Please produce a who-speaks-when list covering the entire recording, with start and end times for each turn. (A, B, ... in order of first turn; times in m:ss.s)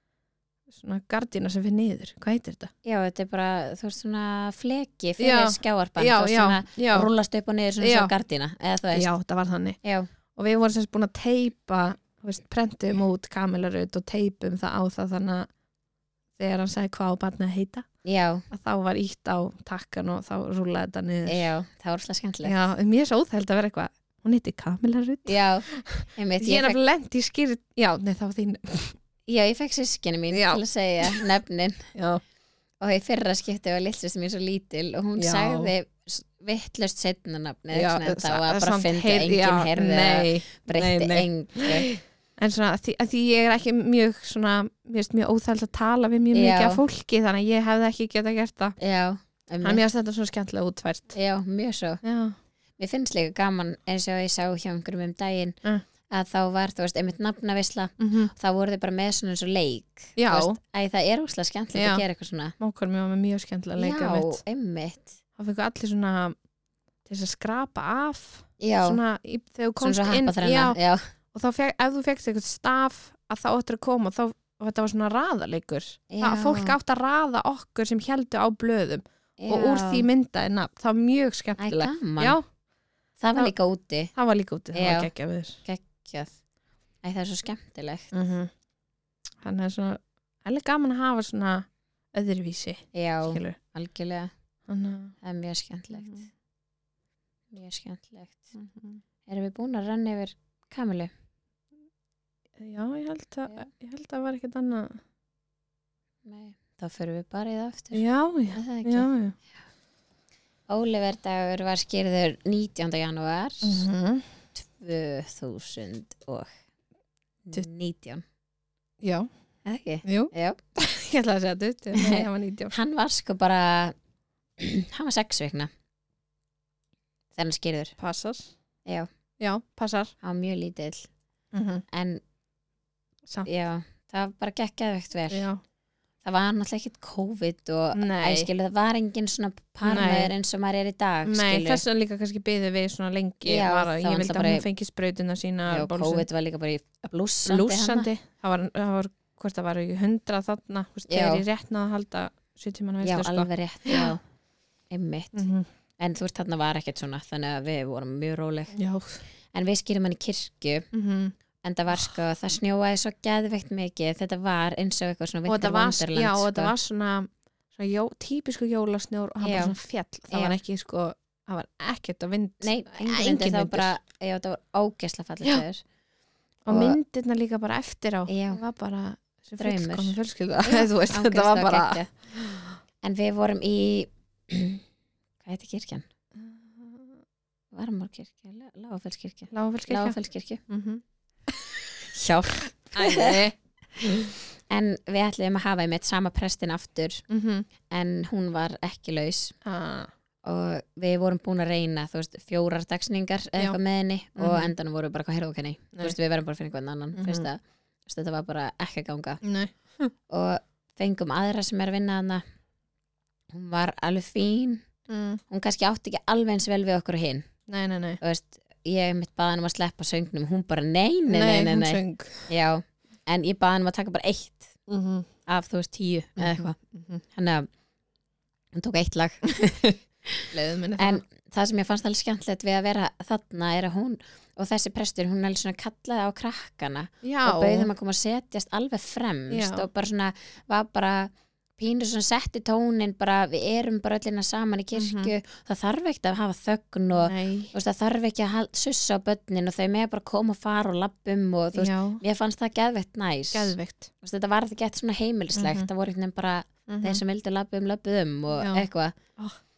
0:00.7-0:02.7 A
0:02.8-0:09.1 B
0:05.2-0:07.1 A
0:07.8-0:08.1 A
0:08.9-0:09.8 A
0:09.8-0:10.1 B
0:10.4-0:15.5 A
0:16.4-0:17.9 A
0:18.0-0:18.5 B
0:18.5-0:21.4 A
0:21.3-0:22.6 B
0:22.4-0:29.0 A
0:25.3-0:26.8 B
0:29.3-0:31.9 B
0:30.3-0:31.2 A
0:32.0-0:32.2 A
0:32.8-0:41.9 B
0:35.2-0:35.7 A
0:37.7-0:48.8 A
0:46.3-0:46.8 B
0:48.8-0:49.8 B
0:49.6-0:51.2 A
0:51.1-0:52.0 B
0:52.0-0:52.4 A
0:52.8-0:55.6 B
0:56.1-1:02.6 B
0:58.0-0:58.3 A
1:00.2-1:00.6 A
1:01.8-1:02.0 A
1:02.6-1:04.4 A
1:03.8-1:05.2 B
1:05.4-1:06.4 A
1:07.1-1:10.8 A
1:08.6-1:09.0 B
1:09.8-1:11.1 B
1:11.3-1:22.4 A
1:16.1-1:16.8 B
1:19.4-1:20.1 B
1:21.6-1:22.4 B
1:23.2-1:24.1 B
1:24.1-1:25.6 A
1:24.7-1:25.1 B
1:25.6-1:26.3 B
1:27.0-1:28.1 B
1:28.1-1:28.5 A
1:29.4-1:33.6 A
1:32.9-1:34.3 B
1:34.7-1:35.2 A
1:35.2-1:36.3 B
1:37.5-1:38.5 B
1:38.6-1:39.0 A
1:39.3-1:41.1 B
1:42.6-1:45.0 A
1:46.2-1:49.1 B
1:47.9-1:49.4 A
1:50.7-1:53.9 B
1:53.6-1:54.3 A
1:54.6-1:56.5 B
1:57.4-1:58.2 B
1:59.0-1:59.3 A
1:59.6-2:00.6 B
2:00.0-2:02.8 A
2:01.9-2:03.9 B
2:04.6-2:05.7 B
2:07.4-2:08.0 B
2:08.0-2:08.5 A
2:09.4-2:10.1 A
2:10.2-2:11.1 B
2:11.5-2:11.8 A
2:11.9-2:12.2 B
2:13.4-2:15.5 B
2:15.3-2:15.6 A
2:16.2-2:21.8 B
2:18.0-2:18.5 A
2:19.8-2:20.3 A
2:21.3-2:26.3 A
2:23.4-2:24.6 B
2:25.7-2:28.1 B
2:27.5-2:34.2 A
2:31.1-2:31.4 B
2:33.0-2:34.2 B
2:34.9-2:35.5 B
2:35.3-2:35.7 A
2:36.0-2:38.8 B
2:38.7-2:39.2 A
2:39.5-2:40.9 B
2:40.9-2:41.3 A
2:41.6-2:46.7 B
2:45.5-2:53.9 A
2:49.4-2:49.8 B
2:50.3-2:50.6 B
2:52.6-2:55.8 B
2:56.7-3:02.8 A
2:56.7-2:57.0 B
2:58.3-2:58.6 B
2:59.6-3:02.1 B
3:03.0-3:04.8 B
3:05.4-3:06.0 B
3:06.4-3:07.1 A
3:07.7-3:10.6 B
3:09.5-3:10.2 A
3:10.7-3:11.8 A
3:12.1-3:13.4 B
3:12.9-3:14.3 A
3:14.2-3:17.2 B
3:17.3-3:17.7 A
3:17.9-3:19.6 B
3:19.6-3:20.1 A
3:20.4-3:29.4 B
3:24.4-3:24.7 A
3:27.2-3:27.5 A
3:29.4-3:29.7 A
3:30.3-3:32.4 B
3:33.5-3:34.8 B
3:35.1-3:35.4 A
3:35.5-3:37.5 B
3:37.7-3:38.2 A
3:38.2-3:44.8 B
3:41.3-3:42.5 A
3:44.9-3:45.3 A
3:45.5-3:46.8 B
3:46.4-3:47.2 A
3:47.3-3:47.7 B
3:48.7-4:19.2 B
3:50.5-3:51.2 A
3:57.2-3:57.9 A
3:59.5-3:59.9 A
4:05.0-4:05.3 A
4:07.2-4:07.7 A
4:11.8-4:12.2 A
4:13.5-4:14.1 A
4:15.6-4:15.9 A
4:16.9-4:17.2 A
4:18.5-4:19.6 A